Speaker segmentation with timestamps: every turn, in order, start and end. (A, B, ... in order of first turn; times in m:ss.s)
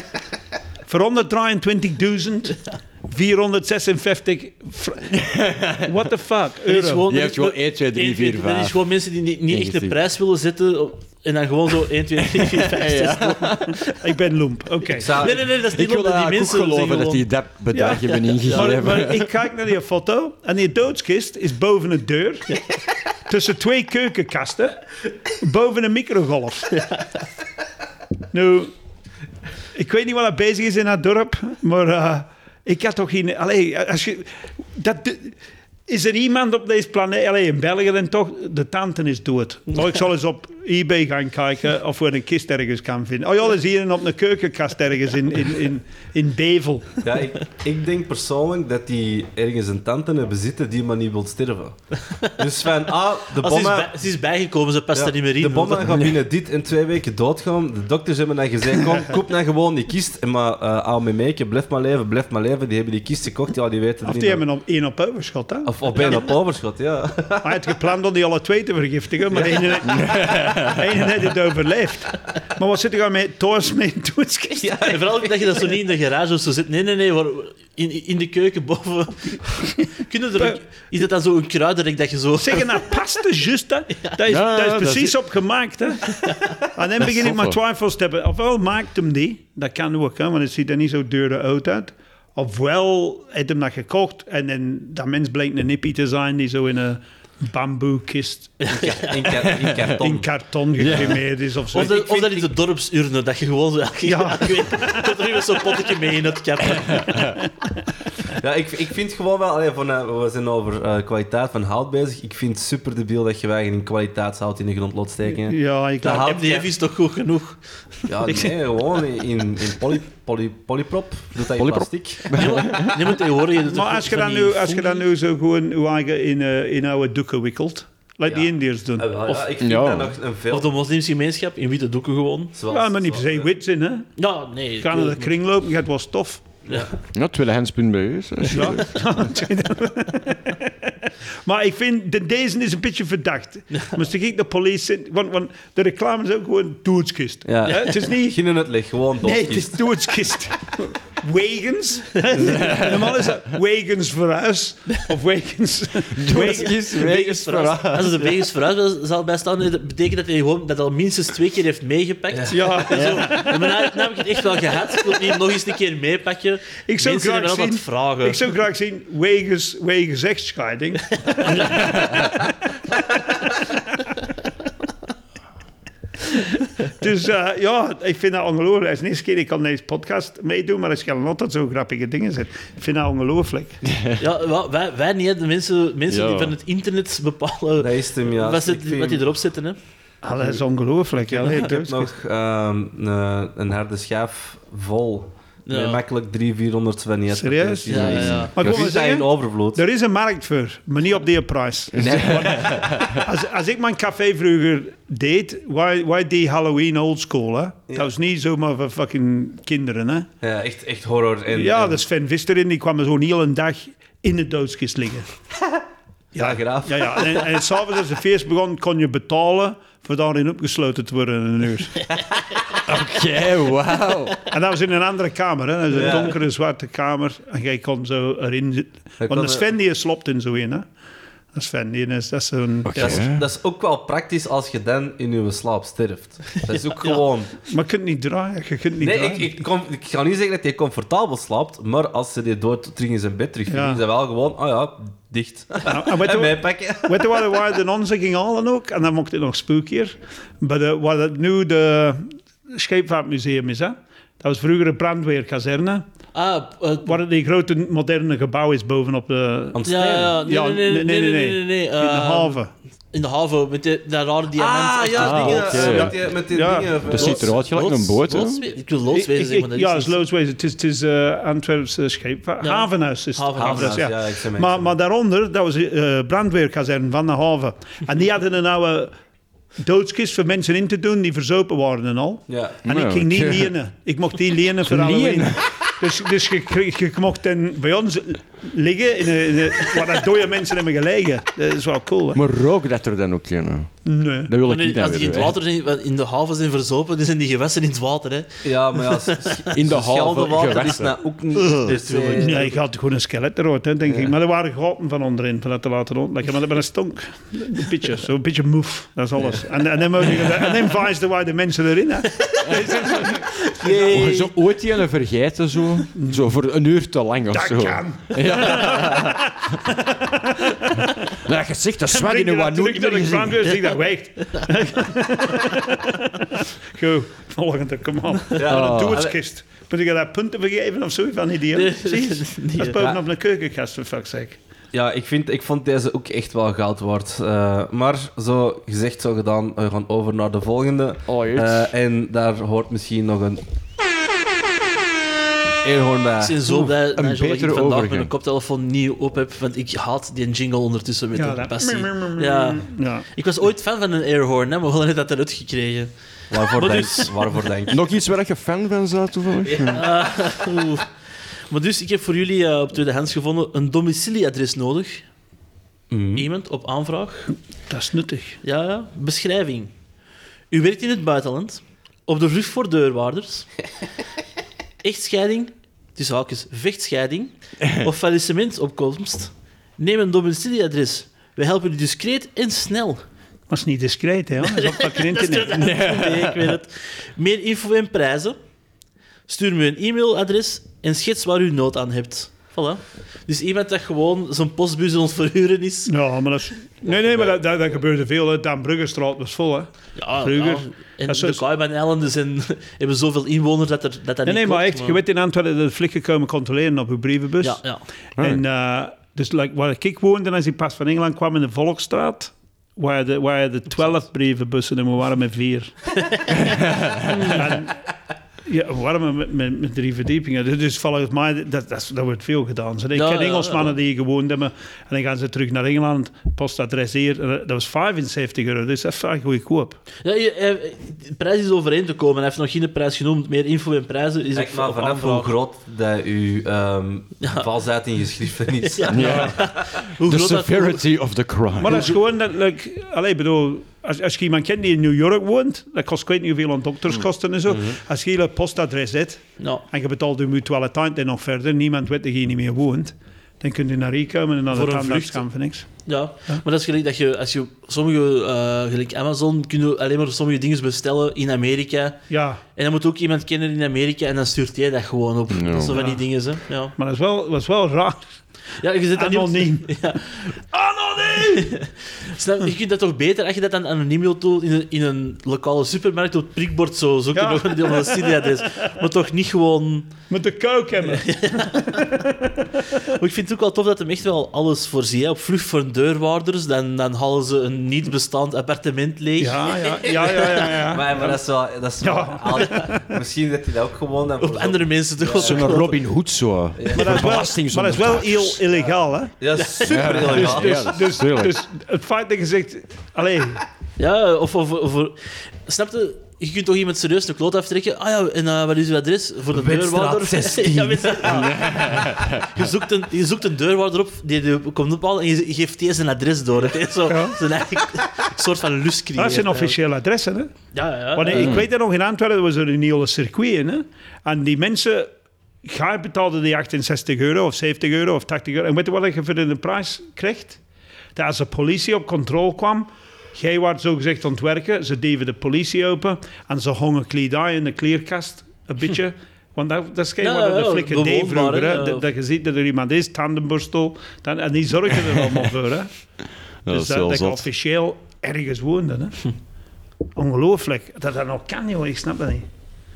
0:00.9-0:07.0 A
0:05.2-0:05.9 B
0:06.6-0:13.9 C
0:07.0-0:08.8 B
0:09.5-0:10.0 B
0:12.3-0:13.8 B
0:14.0-0:15.2 A
0:15.0-0:15.4 D
0:15.0-0:17.3 C
0:15.4-0:19.3 B
0:17.7-0:22.6 A
0:18.1-0:18.8 C
0:23.3-0:26.9 A
0:28.3-0:28.7 A
0:29.8-0:35.4 A
0:35.9-0:47.0 A
0:47.0-0:53.9 D
0:53.3-0:56.1 C
0:54.9-1:04.4 D
1:04.0-1:06.2 A
1:05.6-1:07.5 D
1:07.4-1:14.7 A
1:09.3-1:09.8 D
1:09.9-1:10.8 B
1:14.6-1:15.6 D
1:14.9-1:22.9 C
1:22.4-1:38.6 A
1:24.2-1:25.2 B
1:27.0-1:27.6 B
1:38.6-1:39.3 C
1:38.7-1:40.3 D
1:40.0-1:42.5 A
1:40.8-1:41.2 B
1:41.7-1:47.3 C
1:44.0-1:45.1 A
1:46.9-1:47.3 B
1:48.4-1:56.7 D
1:55.3-1:56.3 A
1:56.0-1:58.1 C
1:58.1-2:02.4 D
2:01.6-2:03.2 B
2:02.4-2:05.0 C
2:03.7-2:09.1 A
2:08.3-2:10.7 D
2:09.6-2:10.1 B
2:10.5-2:12.6 C
2:12.5-2:13.5 D
2:12.7-2:14.1 A
2:14.2-2:15.3 C
2:14.8-2:16.6 A
2:17.1-2:19.1 B
2:18.5-2:20.7 A
2:21.4-2:28.4 A
2:27.4-2:29.9 D
2:29.2-2:36.7 A
2:32.4-2:33.3 B
2:36.1-2:38.4 B
2:36.3-2:48.5 C
2:42.3-2:42.6 D
2:42.5-2:43.5 A
2:43.0-2:43.4 B
2:46.9-2:52.2 A
2:51.4-2:51.9 C
2:51.9-2:52.2 B
2:56.9-3:03.8 A
3:03.8-3:04.2 B
3:04.2-3:09.8 C
3:06.1-3:06.6 B
3:07.8-3:09.2 D
3:10.2-3:12.1 A
3:10.4-3:10.6 D
3:11.3-3:19.8 D
3:15.7-3:16.0 C
3:17.3-3:30.3 A
3:17.9-3:18.5 C
3:17.9-3:18.5 B
3:21.9-3:23.2 B
3:22.0-3:22.9 D
3:30.4-3:32.0 D
3:31.5-3:35.3 A
3:36.4-3:37.5 D
3:36.4-3:42.0 A
3:42.9-3:44.4 B
3:44.5-3:50.8 A
3:45.9-3:46.4 D
3:49.2-3:49.7 D
3:51.5-3:53.2 A
3:52.8-3:53.5 B
3:53.0-3:57.6 D
3:57.7-3:59.6 A
3:59.0-4:07.5 D
4:03.7-4:04.0 A
4:05.8-4:16.0 A
4:16.3-4:17.2 C
4:17.0-4:19.8 A
4:19.7-4:20.4 D
4:19.8-4:22.6 C
4:20.4-4:22.7 A
4:23.1-4:26.1 C
4:24.6-4:27.6 D
4:25.2-4:26.2 B
4:25.9-4:27.2 A
4:27.1-4:28.6 B
4:27.1-4:30.2 C
4:29.1-4:39.1 A
4:32.6-4:34.0 C
4:33.6-4:34.9 D
4:39.8-4:52.4 A
4:42.5-4:42.8 D
4:42.8-4:43.7 B
4:44.8-4:45.8 B
4:52.3-4:55.6 B
4:54.0-4:54.5 A
4:54.6-4:59.7 C
4:58.6-5:02.7 D
4:59.7-5:01.2 B
5:01.6-5:02.7 C
5:02.4-5:14.0 A
5:04.1-5:04.3 D
5:12.6-5:19.7 B
5:13.6-5:14.5 C
5:16.1-5:16.4 A
5:17.5-5:21.1 A
5:21.2-5:23.7 B
5:22.1-5:34.6 A
5:28.6-5:29.4 D
5:28.7-5:29.2 B
5:31.7-5:33.0 C
5:34.9-5:43.6 D
5:41.3-5:41.9 B
5:45.8-5:46.9 D
5:46.4-5:57.6 C
5:47.1-5:48.3 B
5:51.4-5:53.2 A
5:56.5-5:58.0 D
5:57.9-6:00.0 B
5:59.7-6:00.1 D
5:59.9-6:01.1 C
6:01.7-6:05.2 C
6:06.1-6:06.5 D
6:06.4-6:07.5 C
6:07.9-6:08.6 A
6:08.6-6:09.9 C
6:10.7-6:13.7 C
6:15.0-6:23.2 C
6:23.7-6:26.0 A
6:24.6-6:28.6 C
6:25.7-6:26.8 B
6:29.5-6:36.1 C
6:36.1-6:41.6 A
6:37.0-6:37.6 D
6:40.2-6:45.2 C
6:44.4-6:47.8 A
6:47.6-6:48.0 C
6:48.4-6:48.6 B
6:48.4-6:56.1 A
6:56.6-6:57.5 B
6:57.3-6:57.6 C
6:57.4-6:58.0 A
6:58.6-7:10.0 A
7:03.1-7:03.9 C
7:10.2-7:15.5 C
7:14.5-7:19.7 D
7:17.4-7:17.7 C
7:18.8-7:21.0 C
7:19.1-7:22.1 B
7:19.2-7:19.5 A
7:21.8-7:35.9 A
7:27.7-7:28.0 D
7:29.6-7:29.8 C
7:34.7-7:42.2 C
7:42.3-7:42.6 A
7:42.7-7:46.9 C
7:45.5-7:46.0 B
7:45.9-7:46.2 A
7:47.0-7:48.2 A
7:48.8-7:50.6 C
7:49.1-7:49.9 A
7:50.7-7:51.7 A
7:51.4-8:00.1 C
7:57.3-7:58.6 A
8:00.3-8:02.3 A
8:01.1-8:02.1 C
8:03.1-8:10.8 C
8:09.4-8:11.4 A
8:10.8-8:15.7 D
8:12.0-8:13.1 A
8:14.4-8:16.0 C
8:15.4-8:18.6 B
8:16.8-8:17.3 D
8:16.9-8:19.3 A
8:19.4-8:21.0 D
8:19.6-8:20.7 C
8:19.9-8:21.6 B
8:20.3-8:23.6 A
8:24.0-8:39.8 C
8:29.5-8:31.5 D
8:31.2-8:32.6 B
8:37.1-8:37.4 A
8:39.2-8:40.5 A
8:40.7-8:41.6 C
8:41.1-8:45.1 A
8:41.3-8:41.7 B
8:45.6-8:50.6 A
8:51.1-9:05.9 A
9:00.2-9:02.0 C
9:06.6-9:07.4 B
9:06.7-9:09.2 A
9:10.2-9:12.4 A